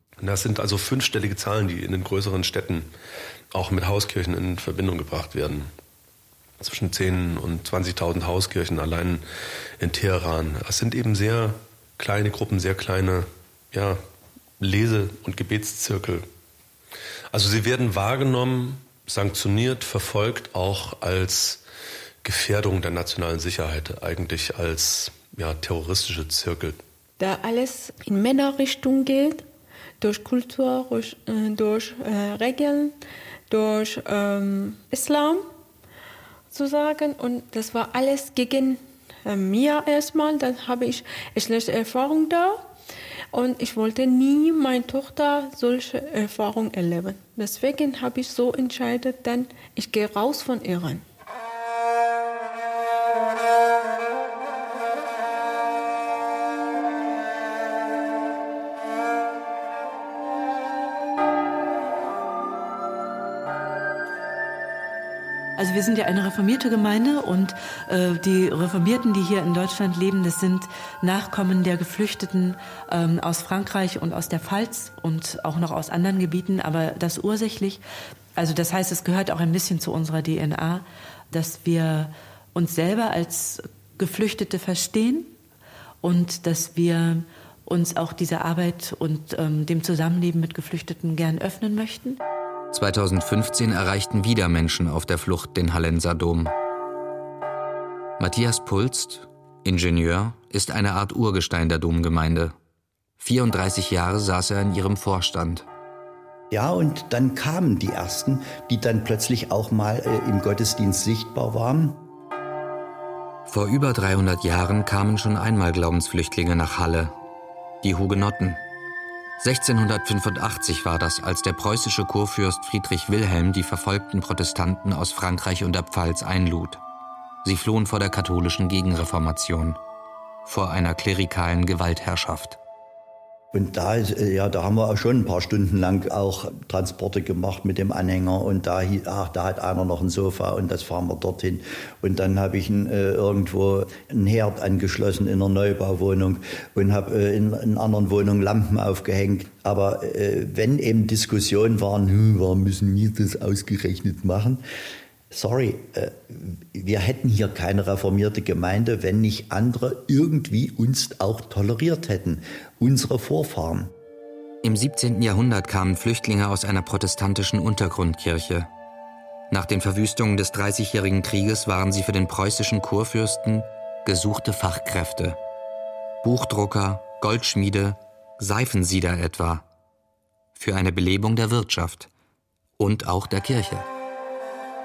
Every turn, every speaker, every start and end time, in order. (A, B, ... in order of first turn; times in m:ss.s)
0:00.2-0:02.9 A
0:03.5-0:05.7 A
0:06.6-0:09.2 A
0:09.8-0:14.0 A
0:14.6-0:16.3 A
0:17.3-0:21.6 A
0:22.2-0:26.8 A
0:27.2-0:29.5 B
0:30.0-0:33.0 B
0:33.5-0:35.4 B
0:36.5-0:42.7 B
0:43.3-0:51.0 B
1:05.6-1:17.8 C
1:18.4-1:25.3 C
1:26.0-1:32.2 C
1:32.7-1:36.5 D
1:38.2-1:42.6 D
1:43.2-1:45.7 D
1:46.5-1:52.0 E
1:53.5-1:57.2 D
1:57.8-1:58.6 D
1:59.4-2:06.8 D
2:07.4-2:09.8 D
2:10.4-2:12.6 D
2:13.5-2:34.6 E
2:35.3-2:43.9 E
2:44.6-2:48.7 D
2:49.5-2:55.4 D
2:56.2-2:59.7 D
3:00.6-3:02.1 D
3:02.8-3:03.9 D